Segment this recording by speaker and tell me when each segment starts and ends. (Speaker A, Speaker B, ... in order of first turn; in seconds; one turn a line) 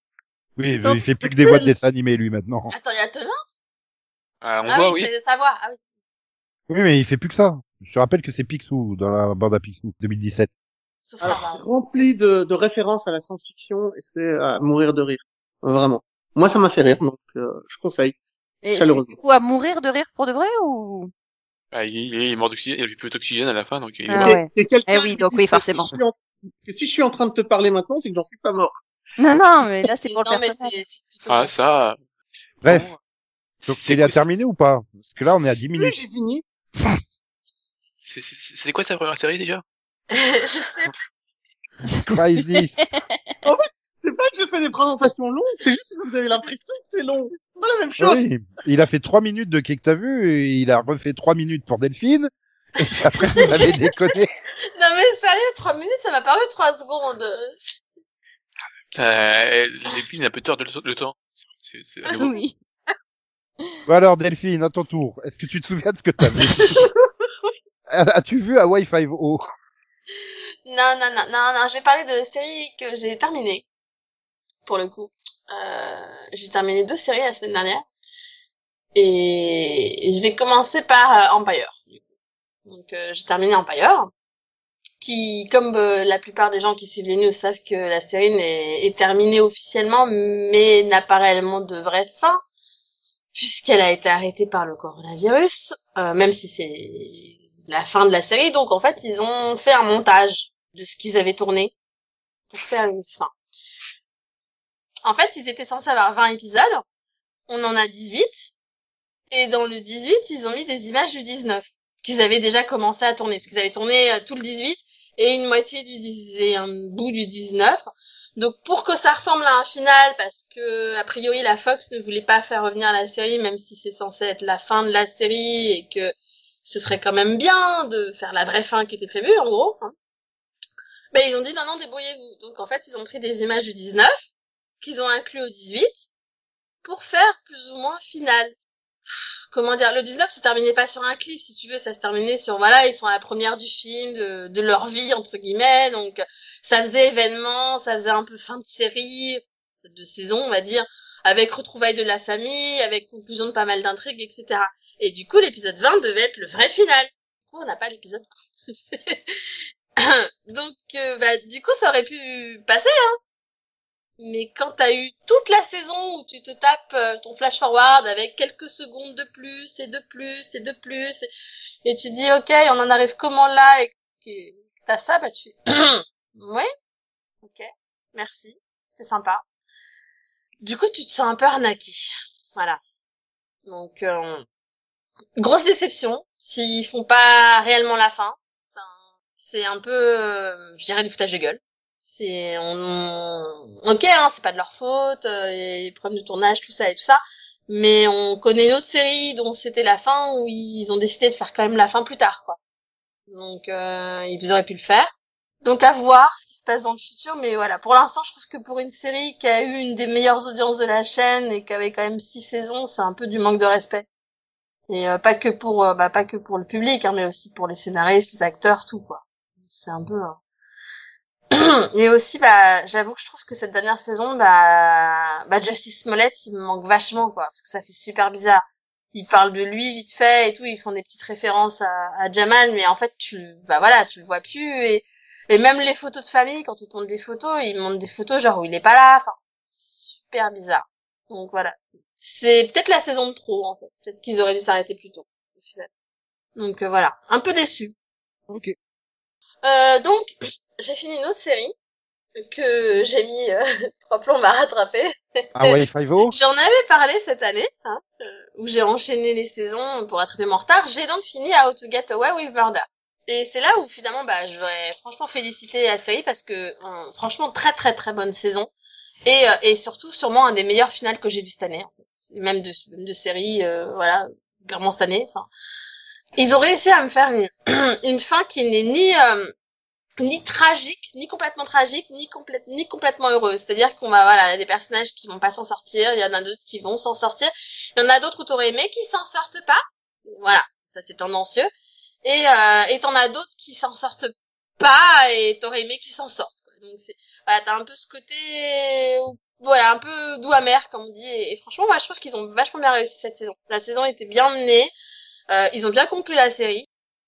Speaker A: 0.6-2.7
Speaker B: 0.8-1.7
Speaker C: 2.7-3.5
Speaker D: 4.4-5.1
Speaker C: 4.7-5.8
Speaker A: 6.7-10.5
Speaker C: 11.1-11.6
Speaker B: 11.2-18.1
Speaker E: 18.6-21.1
Speaker B: 18.7-19.1
Speaker D: 21.7-24.4
Speaker E: 24.1-25.9
Speaker B: 24.2-28.8
Speaker E: 29.2-30.7
Speaker C: 30.0-31.5
Speaker D: 31.3-32.0
Speaker D: 32.6-33.0
Speaker A: 32.6-32.9
Speaker D: 33.6-34.3
Speaker A: 33.6-36.0
Speaker B: 35.7-36.4
Speaker D: 38.0-39.6
Speaker C: 40.1-40.9
Speaker A: 42.1-42.8
Speaker B: 43.4-48.2
Speaker A: 48.0-54.3
Speaker C: 52.8-53.9
Speaker C: 54.8-57.8
Speaker D: 58.9-62.3
Speaker E: 62.2-62.5
Speaker A: 63.9-66.9
Speaker C: 66.6-67.3
Speaker A: 67.9-69.4
Speaker C: 70.7-73.6
Speaker C: 74.7-77.9
Speaker C: 78.9-82.0
Speaker C: 82.7-84.1
Speaker C: 85.0-92.4
Speaker C: 93.3-101.7
Speaker C: 102.5-103.3
Speaker C: 105.0-106.8
Speaker C: 107.5-108.5
Speaker C: 109.3-126.1
Speaker C: 126.6-129.9
Speaker C: 131.1-134.2
Speaker C: 134.8-136.0
Speaker C: 136.8-138.5
Speaker C: 139.2-159.4
Speaker C: 160.0-163.2
Speaker C: 164.2-171.3
Speaker C: 171.8-176.7
Speaker C: 177.4-179.4
Speaker C: 180.6-182.8
Speaker C: 183.7-184.4
Speaker C: 185.4-202.6
Speaker C: 203.3-205.1
Speaker C: 205.6-214.0
Speaker C: 214.9-220.4
Speaker C: 221.5-245.9
Speaker C: 246.6-247.9
Speaker A: 248.5-248.7
Speaker C: 249.6-251.7
Speaker C: 252.4-268.7
Speaker A: 255.5-256.3
Speaker C: 269.2-275.5
Speaker C: 276.4-279.5
Speaker C: 280.2-289.8
Speaker C: 290.3-291.7
Speaker C: 292.2-304.9
Speaker C: 305.5-306.9